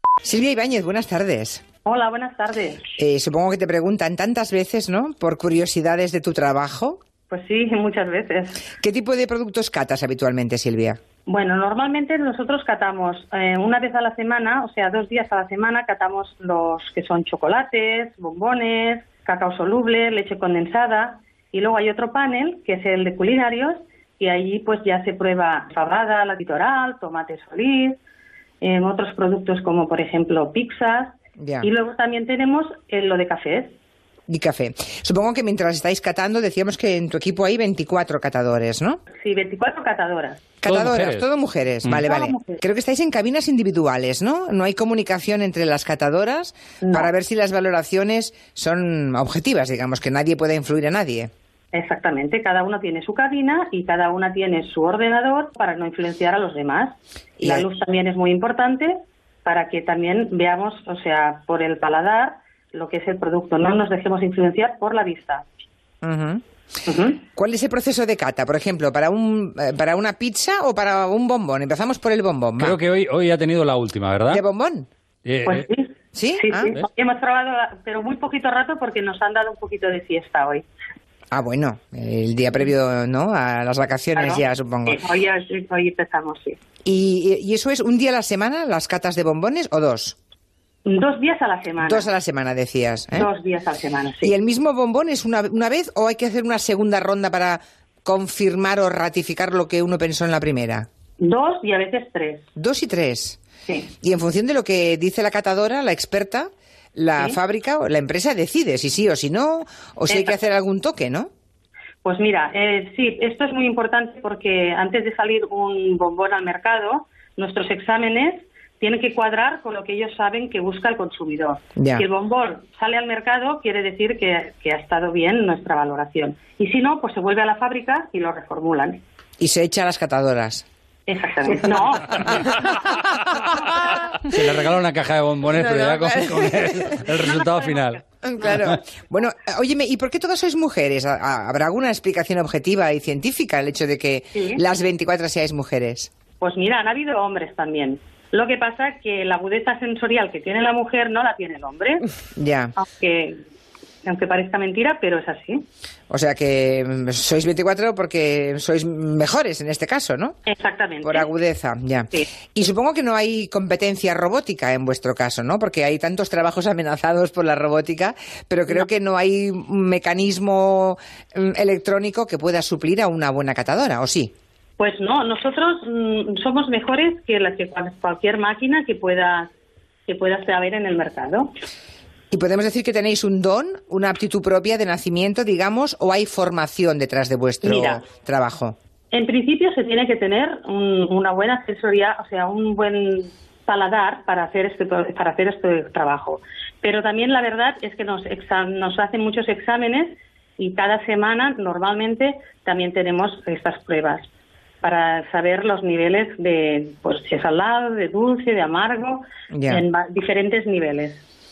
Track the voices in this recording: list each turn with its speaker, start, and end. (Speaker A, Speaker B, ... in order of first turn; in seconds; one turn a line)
Speaker A: 0.2-1.6
Speaker B: 1.9-2.8
Speaker A: 3.0-7.0
Speaker B: 7.3-8.6
Speaker A: 8.8-11.0
Speaker B: 11.3-28.0
Speaker B: 28.6-33.8
Speaker A: 31.4-31.7
Speaker A: 34.3-39.0
Speaker B: 39.1-40.5
Speaker A: 40.6-51.3
Speaker C: 40.7-41.2
Speaker C: 41.8-42.1
Speaker B: 42.0-42.6
Speaker B: 46.8-47.1
Speaker B: 51.7-65.5
Speaker A: 57.4-57.7
Speaker A: 66.0-66.4
Speaker B: 66.9-67.2
Speaker A: 67.3-72.8
Speaker C: 72.6-74.4
Speaker A: 74.3-74.9
Speaker C: 75.2-75.7
Speaker B: 75.5-80.7
Speaker A: 76.1-76.8
Speaker A: 81.3-85.1
Speaker B: 84.2-86.6
Speaker A: 86.8-90.2
Speaker B: 90.9-92.1
Speaker A: 91.8-93.3
Speaker B: 93.2-94.3
Speaker A: 94.2-100.9
Speaker B: 101.2-102.5
Speaker A: 102.6-103.4
Speaker A: 104.0-111.3
Speaker B: 110.1-110.4
Speaker B: 112.0-129.0
Speaker A: 121.8-122.1
Speaker A: 129.4-130.7
Speaker B: 131.1-132.3
Speaker C: 134.3-138.0
Speaker A: 135.5-136.9
Speaker B: 137.6-137.8
Speaker A: 138.2-146.1
Speaker B: 144.3-144.6
Speaker B: 146.4-152.0
Speaker A: 152.4-152.7
Speaker B: 152.8-153.4
Speaker B: 154.1-155.7
Speaker A: 156.1-160.4
Speaker B: 160.5-161.4
Speaker A: 161.0-174.3
Speaker B: 174.8-179.5
Speaker B: 180.1-181.5
Speaker A: 182.3-188.8
Speaker B: 187.6-188.0
Speaker B: 189.1-204.3
Speaker B: 204.8-211.2
Speaker A: 209.5-209.8